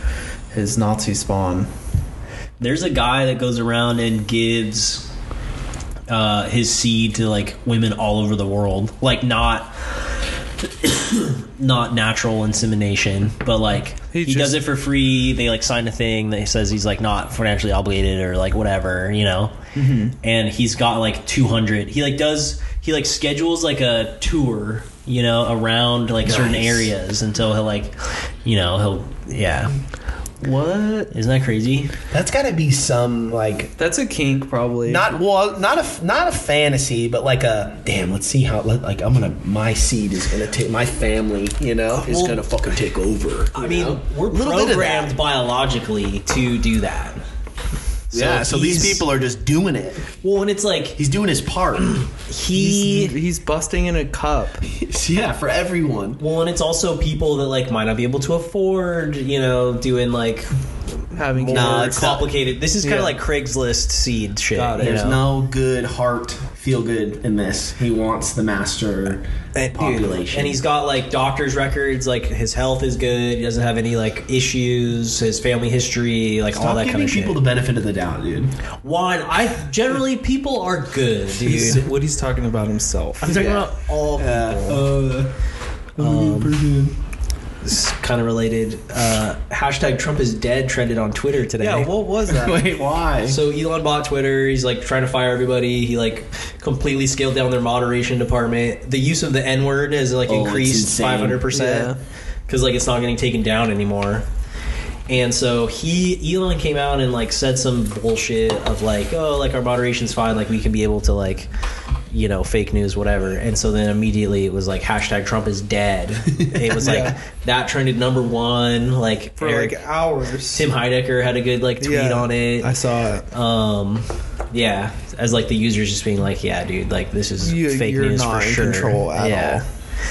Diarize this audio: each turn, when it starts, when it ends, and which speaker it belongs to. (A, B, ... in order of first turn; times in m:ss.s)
0:00.5-0:01.7 A
0:02.6-0:05.1 B
0:06.1-0:09.7 B
0:10.8-0:19.6 B
0:14.1-0:14.6 A
0:19.7-0:20.2 A
0:20.2-0:29.7 B
0:26.2-0:26.9 C
0:30.4-0:31.1 A
0:31.1-0:31.9 B
0:32.1-0:33.7 C
0:33.8-0:35.2 A
0:34.8-0:45.2 C
0:41.9-0:42.4 B
0:43.5-0:47.2 B
0:48.1-0:49.0 B
0:48.1-0:50.2 C
0:50.2-0:51.0 B
0:51.0-0:52.0 C
0:51.9-0:53.2 B
0:52.5-0:54.6 A
0:54.6-0:56.2 C
0:56.2-1:00.5 B
1:01.1-1:02.2 A
1:01.3-1:05.2 B
1:01.4-1:02.3 C
1:02.8-1:03.2 A
1:04.6-1:05.1 A
1:04.8-1:10.6 C
1:09.6-1:17.4 B
1:16.5-1:18.5 C
1:18.8-1:21.9 B
1:21.4-1:23.5 A
1:23.2-1:24.9 B
1:23.3-1:25.3 C
1:26.0-1:27.0 C
1:26.0-1:26.6 B
1:27.6-1:31.9 B
1:31.6-1:32.7 A
1:32.3-1:33.4 C
1:33.3-1:42.0 B
1:40.3-1:41.4 C
1:41.5-1:42.0 A
1:42.5-1:44.3 B
1:45.1-1:51.5 B
1:52.1-1:59.8 B
1:56.8-1:57.2 A
1:59.4-2:00.7 A
2:00.5-2:02.7 B
2:01.8-2:03.3 A
2:03.3-2:09.6 B
2:07.4-2:09.6 A